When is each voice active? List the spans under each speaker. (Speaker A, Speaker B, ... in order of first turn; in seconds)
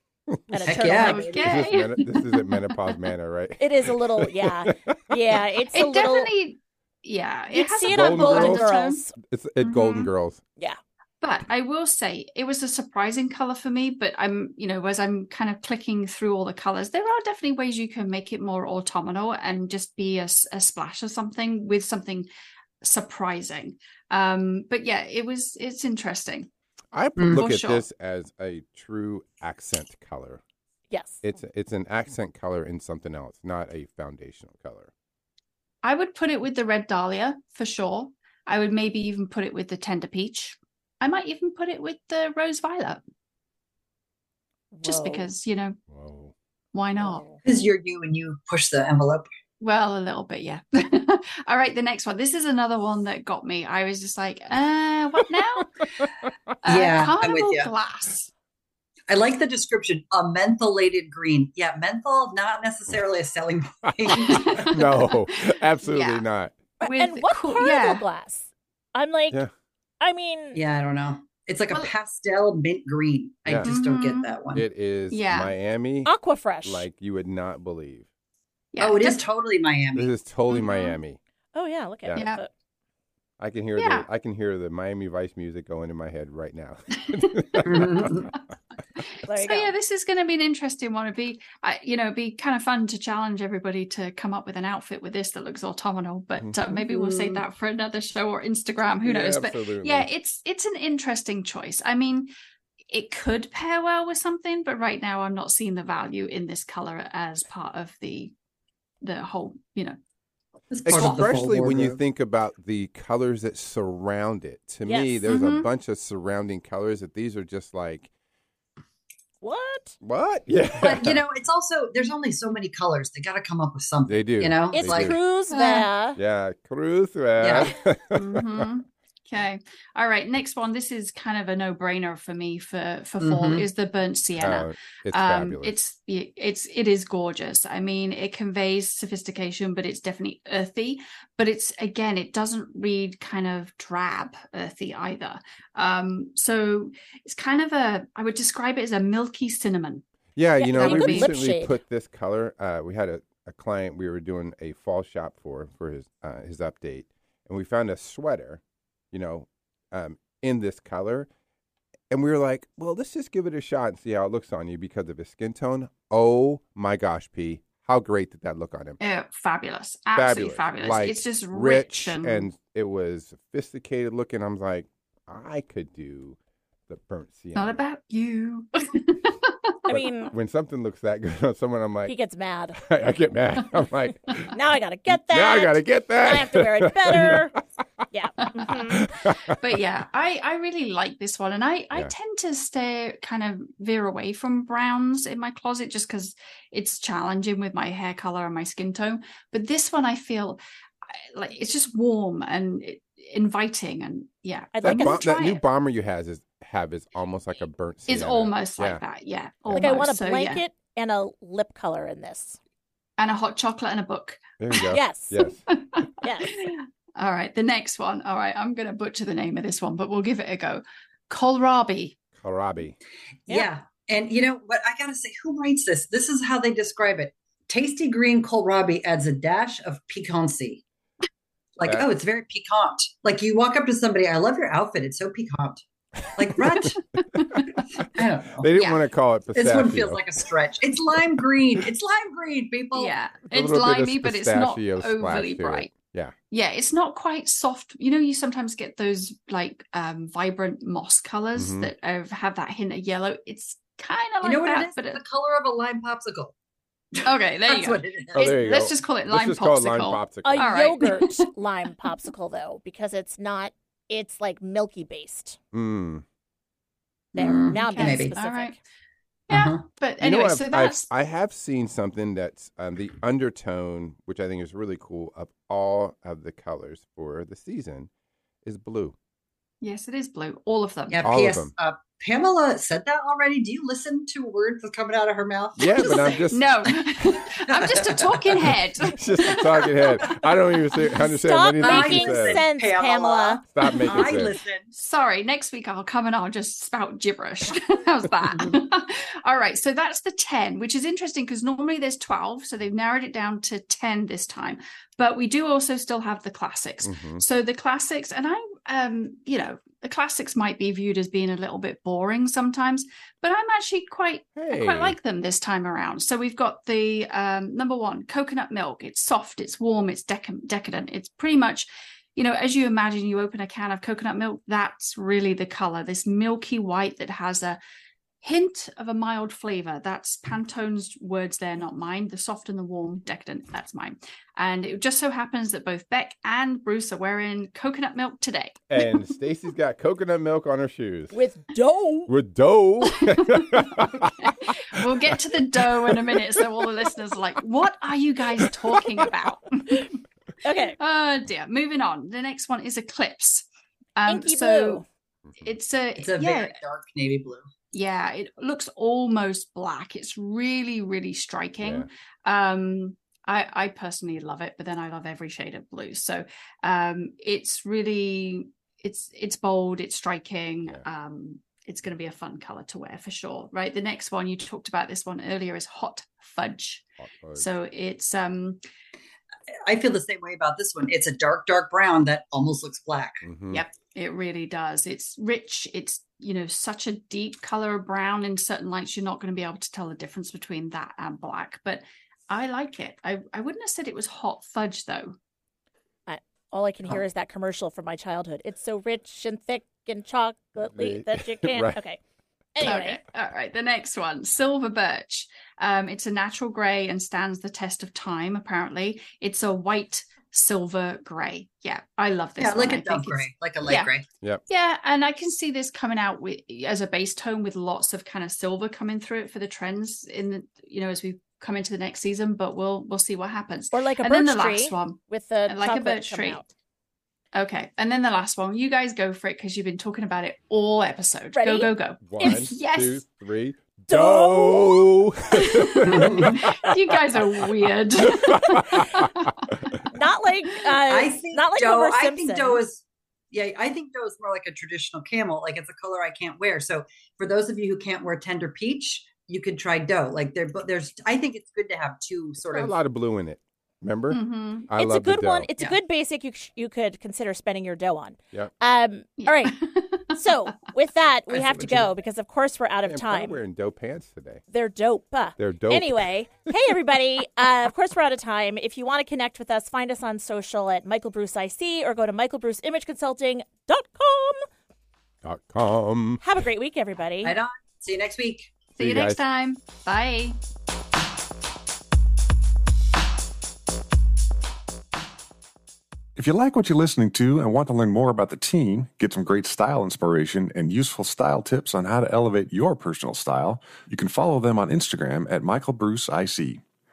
Speaker A: 0.5-1.4, 3.6-6.3, 7.5-9.2, 30.9-31.2, 44.7-45.3, 47.0-47.4, 66.8-69.4, 70.0-70.6, 76.1-76.8, 81.5-82.5, 89.3-89.7, 114.8-115.2, 119.4-120.0, 124.7-126.2, 150.6-151.8, 179.9-180.3, 182.1-182.8, 184.5-187.6, 188.1-189.1, 204.7-205.3, 209.7-212.6, 214.9-215.5, 216.2-216.6, 260.4-265.6, 267.4-268.8, 291.3-293.6, 341.3-342.3, 350.6-351.0, 354.3-355.1, 396.3-402.2, 402.8-403.2, 423.9-426.7, 431.6-432.6, 434.1-435.2, 440.1-442.8, 455.0-459.8, 460.3-463.6, 464.7-474.6, 476.4-477.5
Speaker B: 0.7-1.8, 47.4-49.3, 56.7-57.7, 59.1-65.0, 70.5-74.7, 78.8-80.1, 87.6-88.3, 96.7-97.4, 110.7-112.0, 120.8-125.1, 127.4-127.7, 133.2-133.7, 223.5-230.8, 231.8-238.7, 239.6-243.1, 254.4-256.5, 257.2-258.6, 267.4-268.4, 269.5-269.8, 281.1-286.4, 287.4-288.7, 291.8-294.9, 356.2-357.7, 379.9-383.4, 412.6-414.3, 436.0-436.6, 441.1-452.9, 461.5-462.1, 477.4-478.7
Speaker C: 0.9-2.5, 5.7-9.0, 9.6-10.1, 11.2-22.3, 22.8-26.5, 27.3-27.9, 35.8-43.0, 44.8-45.8, 46.7-47.2, 49.6-56.1, 56.6-58.3, 64.1-66.2, 66.8-68.0, 73.6-74.4, 75.1-75.5, 78.7-79.2, 80.5-81.0, 82.2-82.4, 83.8-84.1, 87.1-87.8, 89.3-102.3, 102.9-108.3, 109.0-110.0, 111.0-111.3, 115.3-115.7, 125.5-125.9, 128.1-150.0, 150.7-151.3, 169.0-172.5, 177.6-179.8, 189.4-200.6, 201.2-205.6, 208.1-210.6, 213.2-214.5, 215.7-222.2, 236.8-237.8, 238.7-239.0, 242.9-245.9, 246.5-255.2, 257.2-261.4, 267.7-268.8, 269.5-271.1, 279.8-281.2, 285.9-290.2, 294.9-327.8, 328.4-338.8, 343.2-350.1, 351.0-355.0, 355.6-356.7, 357.9-378.8, 383.7-395.4, 402.8-414.1, 414.7-426.6, 427.6-433.2, 435.5-440.1, 454.3-454.9, 459.4-460.3, 479.0-480.6
Speaker D: 1.4-5.1, 7.9-8.7, 9.2-10.4, 26.9-30.4, 31.2-34.9, 45.9-46.3, 64.7-66.5, 73.5-73.7, 74.5-76.1, 76.6-78.1, 80.0-81.2, 82.0-82.3, 83.4-88.3, 99.0-100.1, 110.9-118.1, 120.0-121.2, 124.1-125.2, 126.2-128.6, 134.4-135.8, 150.4-158.6, 159.1-161.3, 162.1-169.0, 170.2-177.8, 179.9-182.1, 182.8-184.6, 185.3-187.5, 189.0-189.6, 204.8-209.0, 209.7-210.1, 214.6-215.6, 222.3-223.0, 231.8-232.1, 238.5-240.4, 243.5-246.3, 251.6-251.9, 258.3-260.8, 265.7-266.2, 270.2-278.1, 278.6-279.2, 281.2-281.7, 285.8-286.9, 289.1-292.6, 293.7-294.6, 307.0-307.4, 314.6-315.2, 338.9-341.4, 342.3-344.3, 348.6-349.0, 361.8-362.1, 377.2-377.7, 383.4-383.8, 401.0-402.0, 432.3-436.9, 438.3-439.3, 452.7-455.7, 463.1-464.6, 465.6-466.3, 475.4-476.4, 479.0-479.4
Speaker E: 486.4-496.8